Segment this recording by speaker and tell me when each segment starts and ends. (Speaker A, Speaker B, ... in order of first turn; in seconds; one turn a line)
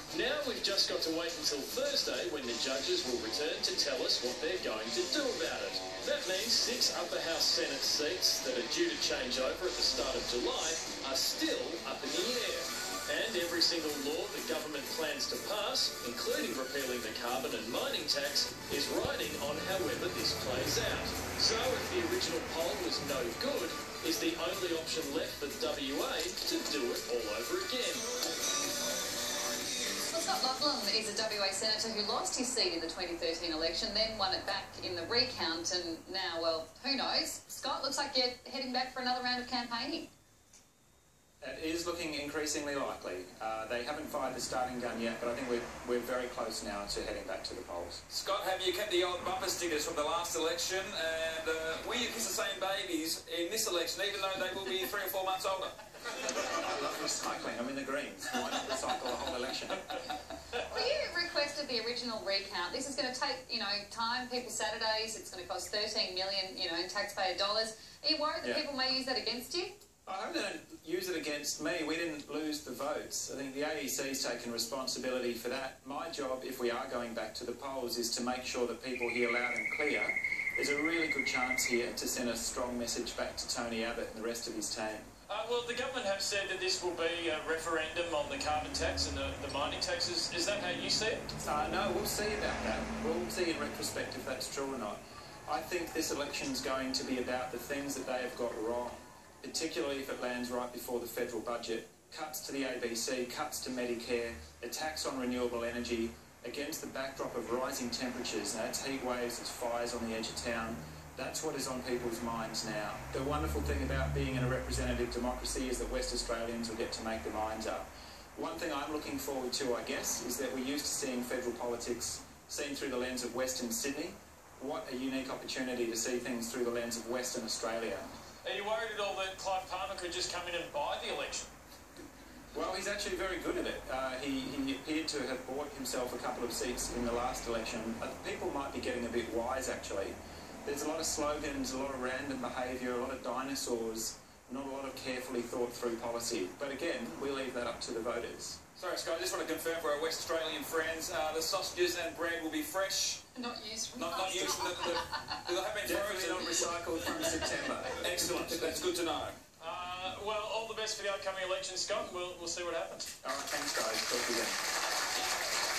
Speaker A: 0.1-28.1
Speaker B: 30.1-40.1
Speaker C: 41.4-48.0
Speaker D: 48.1-55.8
Speaker C: 56.3-59.9
Speaker B: 60.7-69.7
Speaker C: 70.1-85.1
Speaker A: 85.3-91.2
Speaker C: 91.4-128.1
Speaker A: 128.4-131.5
Speaker C: 132.5-148.6
Speaker D: 148.8-153.2
Speaker B: 153.3-155.3
Speaker D: 153.9-156.7
Speaker C: 155.8-158.8
Speaker D: 158.0-159.4
Speaker A: 159.6-163.1
Speaker C: 163.2-164.6